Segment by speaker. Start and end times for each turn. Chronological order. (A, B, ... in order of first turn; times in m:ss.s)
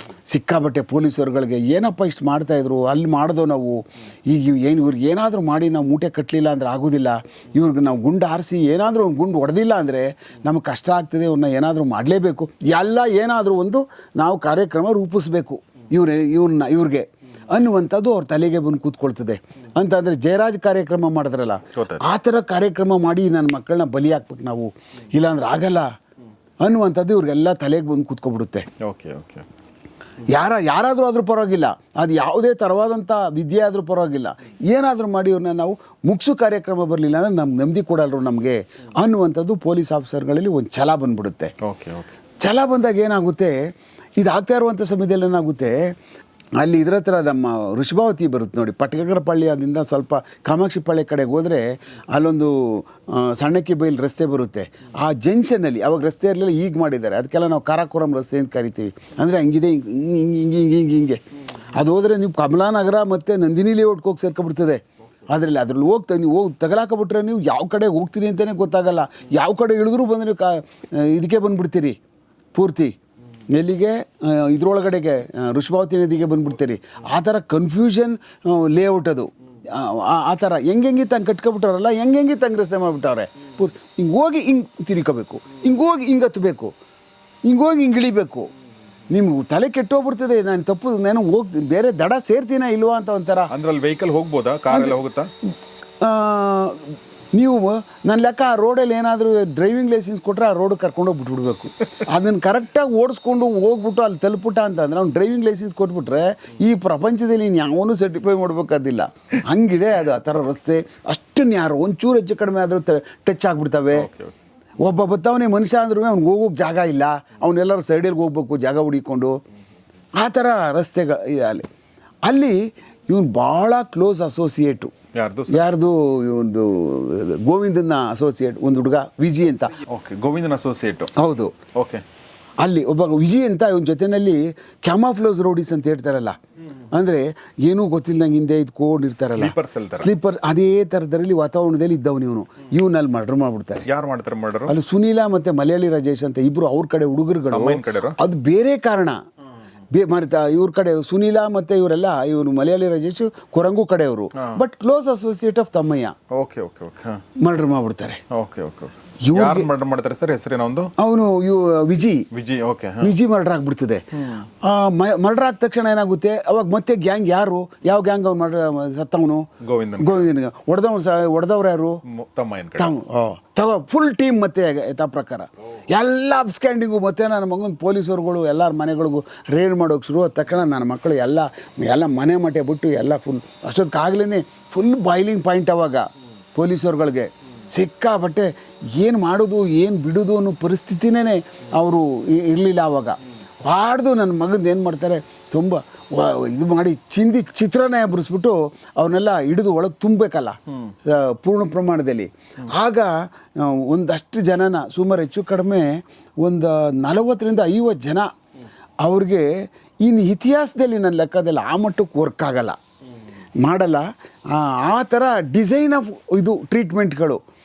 0:00.3-0:25.9 A
0:21.7-0:22.1 B
0:26.6-0:28.7 A
0:28.8-0:29.5 B
0:30.3-0:41.5 A
0:41.6-0:42.2 B
0:42.4-0:43.5 A
0:44.2-0:45.8 A
0:46.6-1:01.2 A
1:01.7-1:12.0 A
1:12.5-1:12.9 A
1:13.5-1:26.7 A
1:27.5-1:28.5 A
1:29.1-1:33.5 A
1:33.5-1:35.3 B
1:36.0-1:54.1 A
1:53.9-1:54.4 B
1:54.8-1:59.3 A
2:00.2-2:01.7 A
2:02.3-2:02.6 A
2:03.1-2:04.9 A
2:05.2-2:05.7 B
2:05.5-2:09.8 A
2:09.8-2:11.1 B
2:11.2-2:11.5 A
2:11.8-2:12.0 B
2:12.6-2:16.4 A
2:16.9-2:23.9 A
2:19.3-2:20.1 B
2:23.9-2:24.8 B
2:24.7-2:29.2 A
2:27.5-2:28.2 B
2:29.9-2:36.2 A
2:36.3-2:37.2 B
2:37.4-2:38.2 A
2:38.3-2:40.9 B
2:39.2-2:39.7 A
2:41.0-2:42.2 A
2:42.3-2:43.1 B
2:43.0-2:44.0 A
2:44.2-2:44.4 B
2:44.6-2:49.5 A
2:49.6-2:50.3 B
2:50.0-2:52.0 A
2:52.1-2:53.0 B
2:52.8-3:25.9 A
3:26.4-3:28.3 A
3:29.0-3:29.5 A
3:30.0-3:32.8 A
3:33.6-3:37.4 A